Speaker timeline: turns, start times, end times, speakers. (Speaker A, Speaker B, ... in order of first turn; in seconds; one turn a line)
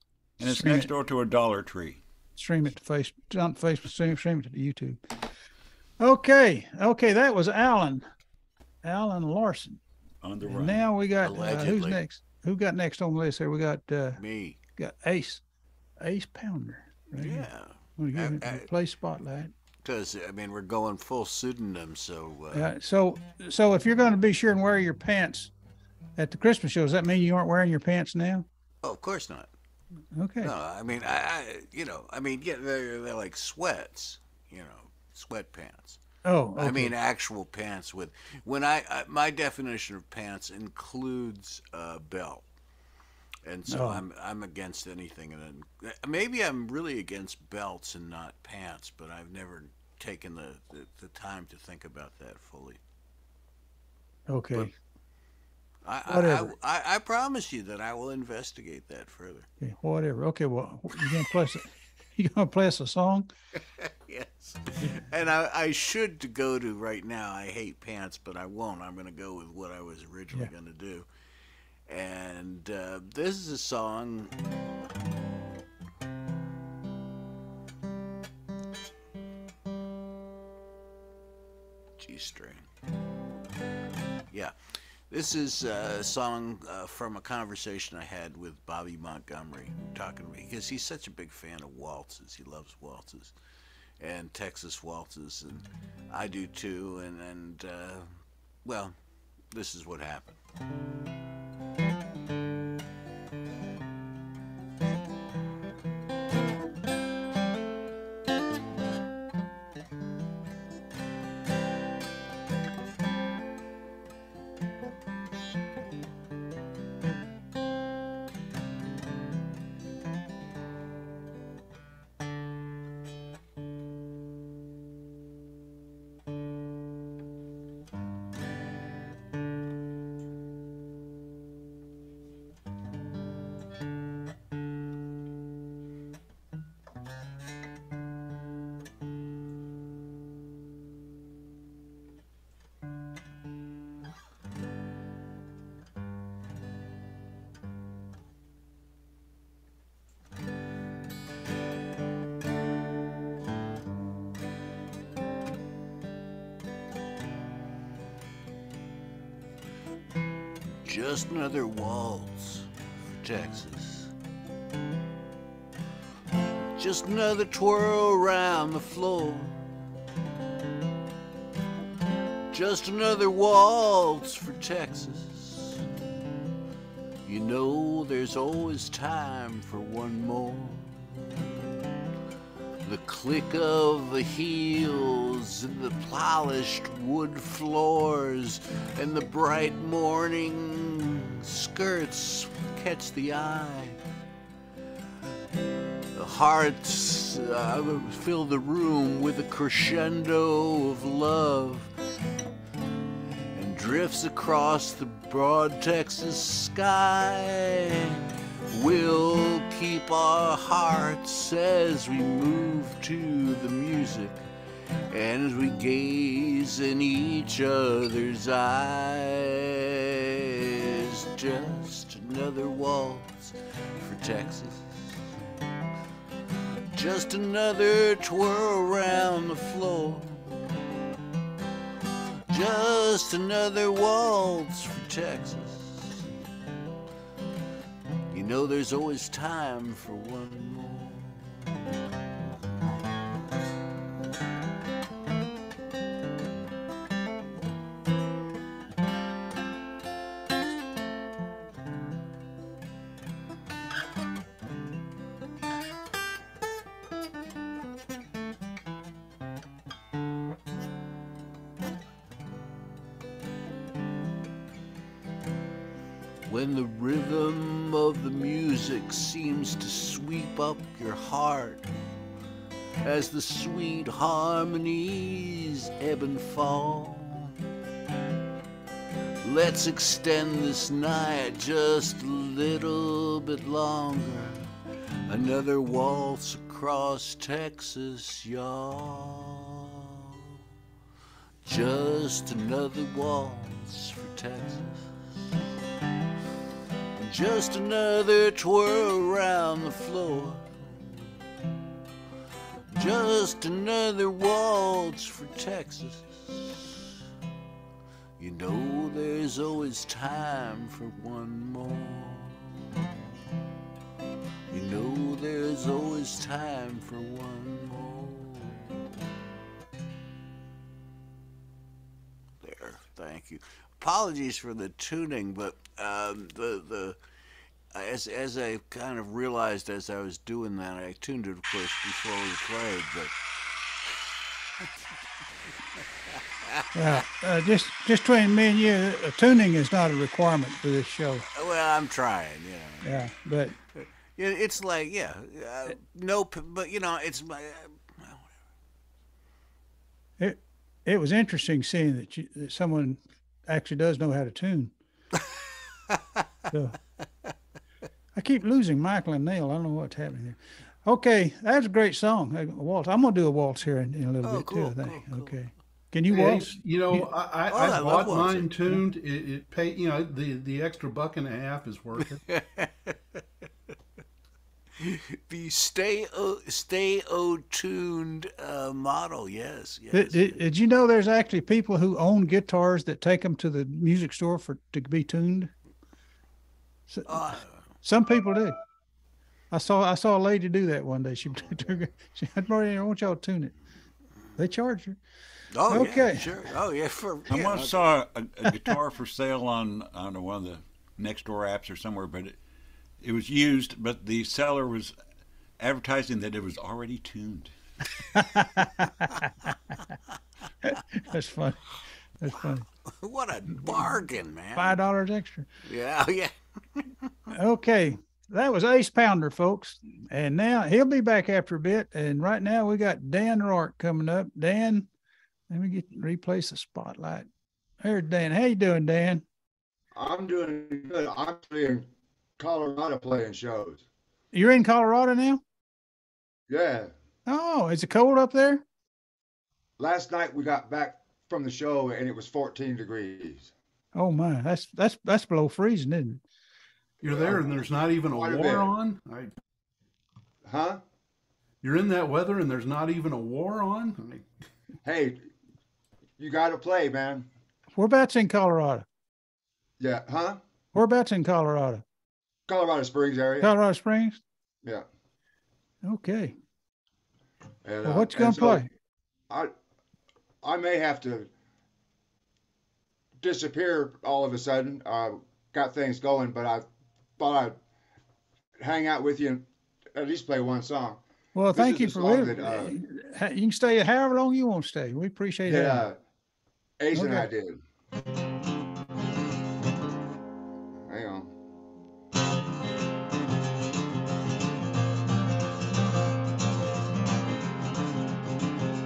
Speaker A: 0.4-2.0
Speaker B: 0.4-0.9
Speaker B: 2.4-5.0
Speaker B: 6.0-8.0
Speaker B: 8.8-9.8
Speaker A: 10.2-10.8
Speaker B: 10.4-14.2
Speaker C: 11.2-12.0
Speaker C: 14.2-14.6
Speaker B: 14.8-15.4
Speaker B: 16.0-19.5
Speaker C: 17.1-18.7
Speaker C: 19.8-22.7
Speaker B: 22.5-25.5
Speaker B: 26.2-28.5
Speaker C: 28.8-29.5
Speaker B: 30.1-30.5
Speaker C: 30.4-36.0
Speaker B: 36.2-36.9
Speaker C: 36.6-42.4
Speaker C: 43.4-52.8
Speaker B: 43.7-44.0
Speaker B: 54.3-54.7
Speaker C: 55.8-59.5
Speaker B: 56.1-56.5
Speaker B: 59.6-63.3
Speaker C: 63.8-71.1
Speaker C: 71.9-74.3
Speaker C: 82.0-82.7
Speaker C: 85.1-93.3
Speaker C: 94.0-98.1
Speaker C: 98.6-99.0
Speaker C: 99.5-100.4
Speaker C: 160.8-164.1
Speaker C: 166.8-169.6
Speaker C: 172.5-175.8
Speaker C: 177.2-181.3
Speaker C: 182.8-194.0
Speaker C: 196.1-201.9
Speaker C: 203.5-208.2
Speaker C: 208.7-214.4
Speaker C: 215.1-225.2
Speaker C: 226.9-230.4
Speaker C: 232.5-236.2
Speaker C: 238.3-241.6
Speaker C: 266.4-271.9
Speaker C: 273.0-277.5
Speaker C: 279.4-284.6
Speaker C: 285.3-290.2
Speaker C: 291.6-295.1
Speaker C: 297.1-300.7
Speaker C: 302.9-307.0
Speaker C: 308.4-312.7
Speaker C: 314.7-318.9
Speaker C: 322.6-327.2
Speaker C: 327.9-333.3
Speaker C: 336.3-336.8
Speaker B: 336.9-341.4
Speaker C: 341.5-343.3
Speaker B: 343.0-343.7
Speaker C: 343.9-348.5
Speaker B: 350.4-354.9
Speaker C: 356.1-356.4
Speaker B: 356.7-357.0
Speaker B: 358.4-367.3
Speaker C: 364.4-365.6
Speaker D: 366.3-372.4
Speaker C: 367.7-368.7
Speaker C: 372.4-373.4
Speaker C: 375.0-380.5
Speaker B: 380.1-385.7
Speaker B: 387.1-387.4
Speaker C: 387.2-387.8
Speaker B: 388.0-388.8
Speaker B: 389.7-393.7
Speaker B: 394.6-395.2
Speaker C: 395.7-398.1
Speaker B: 395.9-396.6
Speaker A: 397.5-402.6
Speaker A: 403.2-405.1
Speaker A: 405.8-407.7
Speaker B: 408.3-409.7
Speaker B: 410.8-411.9
Speaker B: 412.4-412.8
Speaker C: 412.5-415.0
Speaker B: 414.7-415.7
Speaker C: 415.8-417.3
Speaker B: 417.5-425.1
Speaker B: 425.7-427.5
Speaker B: 428.0-429.4
Speaker E: 430.1-432.1
Speaker E: 432.6-434.0
Speaker B: 434.5-435.6
Speaker E: 436.7-437.1
Speaker B: 437.4-438.8
Speaker E: 440.0-443.7
Speaker B: 444.1-446.4
Speaker E: 447.2-448.9
Speaker D: 447.2-449.5
Speaker E: 450.6-451.0
Speaker D: 451.8-454.4
Speaker E: 455.0-455.4
Speaker E: 456.4-457.5
Speaker B: 457.9-459.1
Speaker E: 460.0-460.6
Speaker B: 460.9-462.0
Speaker E: 462.7-463.7
Speaker B: 463.6-464.4
Speaker B: 466.0-466.5
Speaker E: 467.8-468.9
Speaker B: 468.0-468.9
Speaker E: 470.6-471.5
Speaker E: 473.4-476.9
Speaker E: 477.4-477.8
Speaker E: 478.8-481.2
Speaker B: 481.5-486.0
Speaker E: 481.7-482.9
Speaker E: 485.6-486.2
Speaker E: 487.0-487.8
Speaker B: 487.1-487.5
Speaker E: 491.1-491.5